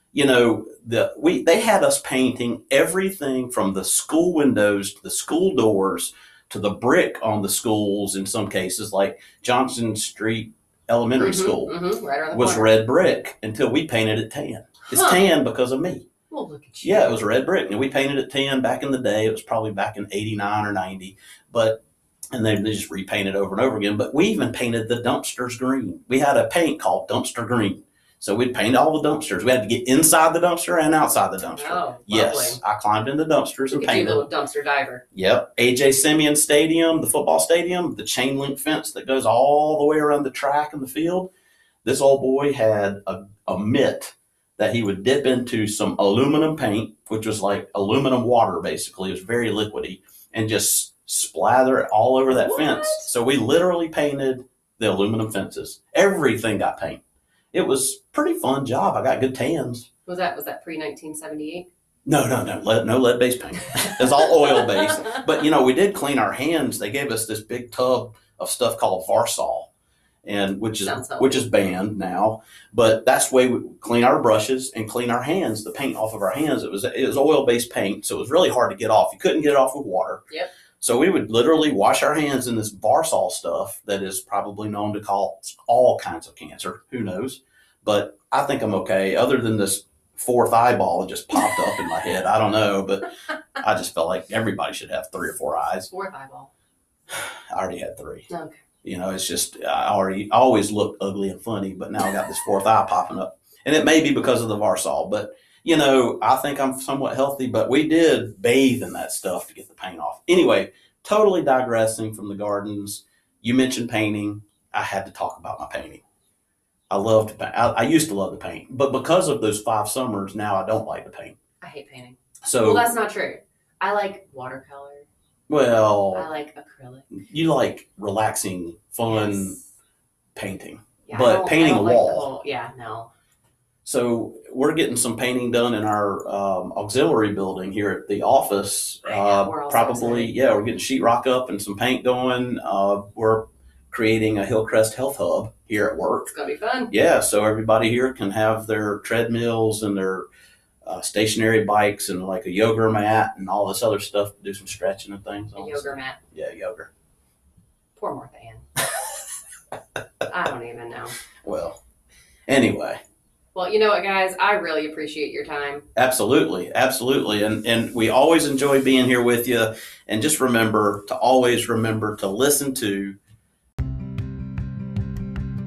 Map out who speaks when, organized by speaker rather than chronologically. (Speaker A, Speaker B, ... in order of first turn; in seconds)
Speaker A: 0.1-11.8, 12.3-16.1, 16.8-21.8, 22.3-34.2, 35.1-41.3, 41.8-57.0, 57.5-59.9, 62.0-69.7, 70.2-80.2, 80.8-95.9, 97.1-98.3, 98.8-116.0, 116.9-121.3, 122.4-122.9, 125.5-126.3, 127.1-129.6, 130.3-132.3, 133.8-146.3, 146.9-150.2, 150.8-156.9, 161.4-161.8, 162.5-163.0, 165.9-173.2
Speaker B: 11.2-12.7, 14.9-15.3, 16.3-17.2, 31.5-32.6, 33.7-35.0, 52.3-53.1, 60.1-61.7, 70.8-71.5, 95.9-96.5, 98.3-98.6, 121.6-125.1, 126.1-127.1, 129.1-129.6, 131.1-133.1, 139.0-140.3, 146.3-146.9, 155.6-156.2, 157.9-158.6, 160.3-161.2, 163.5-165.8